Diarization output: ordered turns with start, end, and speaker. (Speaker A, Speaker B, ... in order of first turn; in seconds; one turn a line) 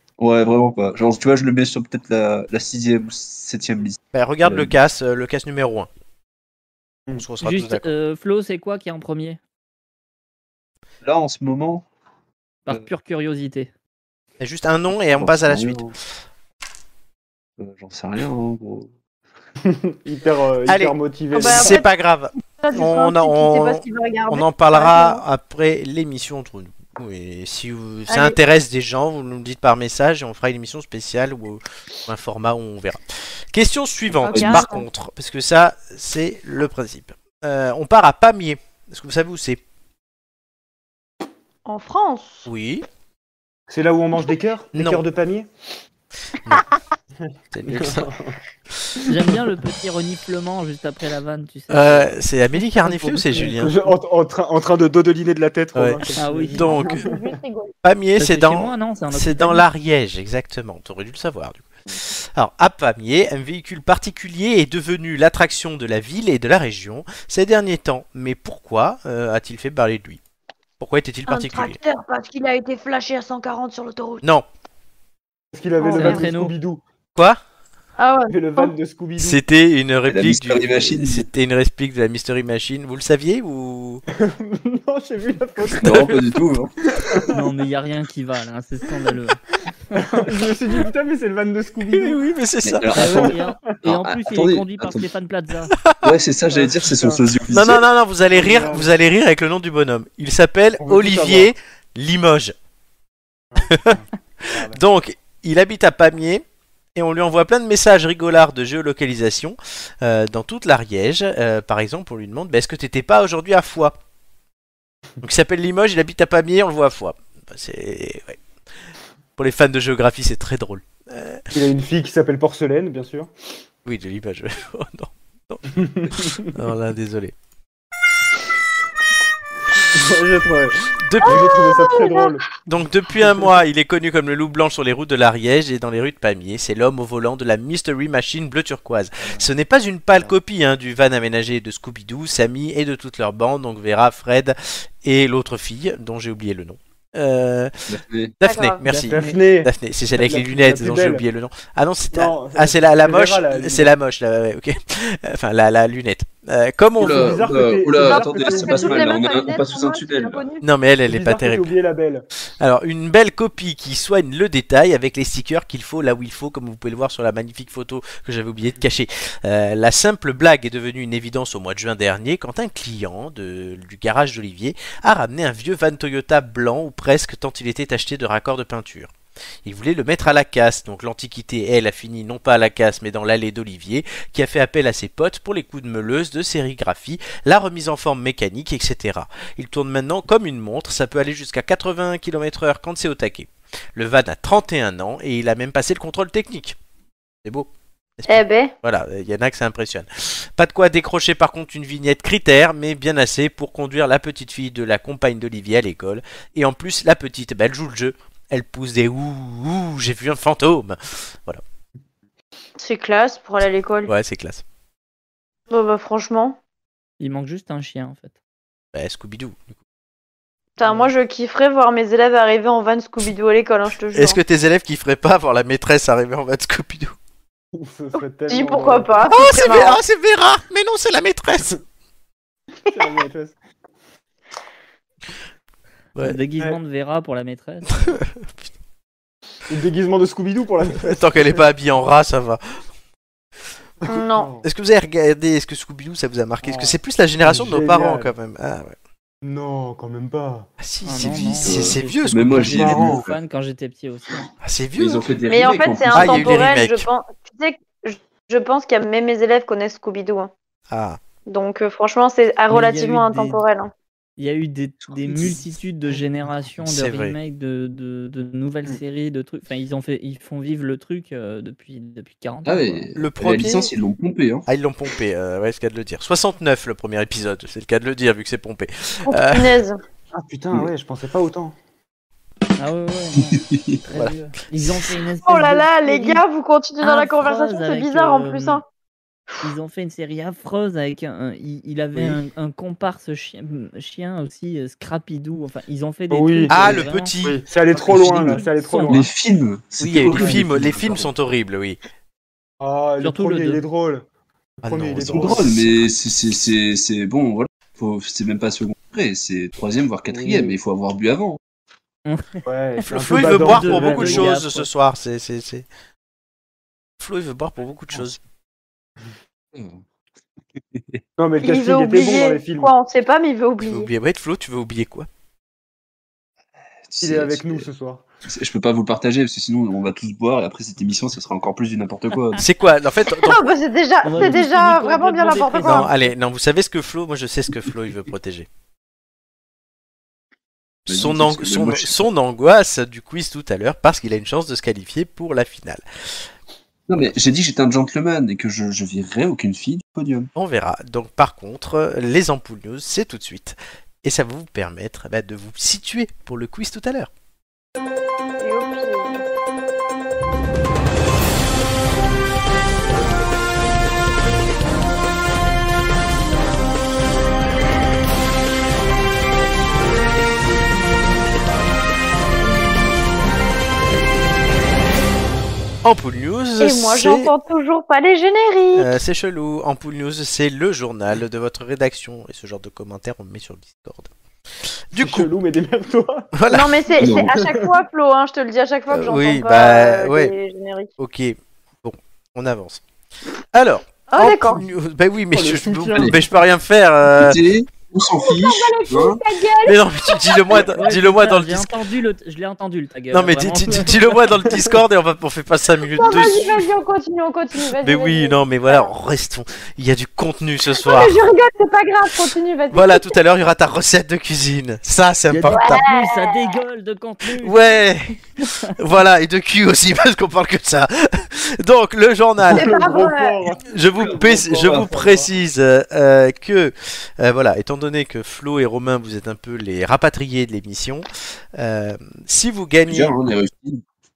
Speaker A: 0.2-4.8
Speaker B: 4.1-5.9
Speaker B: 7.2-7.9
Speaker C: 7.4-9.4
Speaker A: 11.0-11.8
Speaker C: 12.7-13.7
Speaker B: 14.4-15.8
Speaker A: 15.1-15.9
Speaker A: 17.6-18.9
Speaker D: 19.6-21.8
Speaker B: 20.7-33.0
Speaker E: 21.3-21.9
Speaker E: 22.6-25.2
Speaker E: 28.1-28.4
Speaker B: 33.5-39.6
Speaker E: 34.2-34.8
Speaker A: 34.3-34.6
Speaker E: 41.7-42.5
Speaker B: 42.5-42.9
Speaker D: 43.7-45.5
Speaker B: 44.7-45.0
Speaker B: 47.5-48.1
Speaker D: 47.7-48.4
Speaker C: 49.1-52.2
Speaker B: 51.7-53.8
Speaker C: 52.9-53.2
Speaker D: 53.3-57.2
Speaker B: 55.8-56.0
Speaker C: 56.2-56.7
Speaker B: 56.5-57.0
Speaker E: 56.8-57.7
Speaker B: 57.8-61.7
Speaker C: 58.2-59.6
Speaker B: 62.2-70.2
Speaker B: 70.8-71.8
Speaker E: 71.3-74.2
Speaker D: 75.5-76.8
Speaker E: 75.8-76.3
Speaker C: 76.0-76.5
Speaker B: 77.1-77.4
Speaker E: 78.0-78.7
Speaker D: 78.3-79.4
Speaker B: 79.2-84.0
Speaker A: 80.1-81.3
Speaker D: 84.1-86.3
Speaker A: 85.8-87.3
Speaker D: 87.0-87.4
Speaker C: 87.3-89.4
Speaker D: 89.9-92.2
Speaker B: 91.9-92.9
Speaker A: 92.6-95.1
Speaker C: 92.9-95.8
Speaker D: 93.0-93.8
Speaker B: 95.8-96.1
Speaker A: 96.0-97.8
Speaker D: 96.5-97.2
Speaker B: 97.5-102.5
Speaker D: 98.3-98.9
Speaker D: 100.8-101.5
Speaker D: 103.5-104.8
Speaker B: 103.7-104.0
Speaker B: 104.5-114.0
Speaker B: 115.2-118.4
Speaker B: 119.4-121.4
Speaker D: 121.5-123.3
Speaker B: 123.8-127.3
Speaker D: 125.8-126.5
Speaker D: 129.8-132.5
Speaker B: 131.0-131.6
Speaker E: 131.2-132.3
Speaker B: 132.6-147.9
Speaker A: 147.9-148.3
Speaker B: 148.4-157.4
Speaker E: 148.4-148.8
Speaker C: 148.8-149.4
Speaker D: 149.1-151.2
Speaker D: 152.1-153.9
Speaker D: 157.0-159.3
Speaker A: 157.0-160.4
Speaker E: 158.0-160.6
Speaker B: 160.6-161.7
Speaker D: 161.1-162.3
Speaker B: 162.6-179.1
Speaker B: 179.6-196.8
Speaker B: 197.4-211.6
Speaker E: 198.3-198.7
Speaker E: 212.8-214.1
Speaker B: 214.1-214.6
Speaker E: 215.7-216.6
Speaker C: 217.2-218.4
Speaker B: 218.9-219.7
Speaker E: 220.8-224.4
Speaker D: 220.8-221.1
Speaker B: 224.1-227.2
Speaker D: 227.8-229.3
Speaker E: 228.5-230.0
Speaker B: 229.3-231.8
Speaker D: 232.9-233.6
Speaker C: 236.2-238.1
Speaker B: 238.0-238.7
Speaker D: 239.7-241.6
Speaker B: 241.0-242.8
Speaker D: 244.0-244.7
Speaker E: 244.1-244.5
Speaker B: 244.6-249.0
Speaker D: 246.6-248.3
Speaker D: 249.4-250.7
Speaker B: 250.8-252.8
Speaker C: 251.0-254.5
Speaker A: 251.6-253.4
Speaker D: 252.6-253.2
Speaker B: 254.6-255.3
Speaker A: 255.0-256.6
Speaker E: 255.5-260.5
Speaker B: 256.1-257.1
Speaker B: 260.9-261.2
Speaker E: 261.5-263.9
Speaker C: 262.7-263.6
Speaker C: 264.4-273.1
Speaker B: 266.8-267.4
Speaker A: 272.6-274.7
Speaker B: 273.2-273.9
Speaker B: 274.7-279.8
Speaker E: 279.3-280.0
Speaker D: 280.3-281.7
Speaker C: 282.8-286.4
Speaker A: 283.5-284.0
Speaker B: 284.1-285.1
Speaker E: 285.4-288.8
Speaker C: 287.0-288.8
Speaker C: 289.6-297.3
Speaker D: 296.3-299.3
Speaker B: 296.7-298.6
Speaker C: 298.1-299.3
Speaker A: 299.1-301.3
Speaker B: 300.0-302.0
Speaker D: 302.8-304.2
Speaker C: 303.2-303.8
Speaker D: 304.8-305.8
Speaker B: 304.8-305.9
Speaker A: 305.3-311.6
Speaker C: 312.3-312.6
Speaker D: 312.7-314.5
Speaker B: 313.0-315.9
Speaker C: 313.3-314.9
Speaker B: 317.2-318.4
Speaker A: 319.7-320.0
Speaker A: 320.9-321.2
Speaker D: 321.4-322.9
Speaker E: 321.6-324.1
Speaker B: 323.8-325.3
Speaker A: 327.1-327.9
Speaker D: 327.2-328.2
Speaker A: 328.5-332.6
Speaker B: 332.6-333.6
Speaker E: 333.4-336.1
Speaker C: 334.2-336.3
Speaker B: 335.8-338.7
Speaker A: 341.1-342.1
Speaker B: 341.1-346.0
Speaker A: 347.1-350.5
Speaker B: 350.6-357.3
Speaker E: 358.6-359.4
Speaker B: 376.0-377.5
Speaker E: 376.8-379.2
Speaker B: 378.9-384.3
Speaker B: 384.9-385.5
Speaker D: 385.2-386.5
Speaker B: 386.6-386.9
Speaker E: 386.7-391.1
Speaker A: 387.2-387.5
Speaker D: 387.3-387.9
Speaker B: 389.1-390.5
Speaker B: 391.2-393.0
Speaker B: 393.7-397.6
Speaker E: 394.3-394.8
Speaker D: 395.5-396.4
Speaker A: 397.4-399.4
Speaker E: 398.4-400.9
Speaker B: 399.9-401.9
Speaker C: 400.9-404.6
Speaker B: 403.3-406.9
Speaker E: 406.1-409.1
Speaker B: 408.0-411.4
Speaker E: 410.9-413.3
Speaker B: 412.9-416.0
Speaker C: 415.7-417.8
Speaker E: 415.7-416.8
Speaker B: 417.6-418.4
Speaker C: 418.6-418.9
Speaker B: 418.9-423.0
Speaker D: 422.7-425.5
Speaker E: 422.7-423.6
Speaker B: 423.9-433.3
Speaker A: 424.2-425.1
Speaker A: 433.1-434.0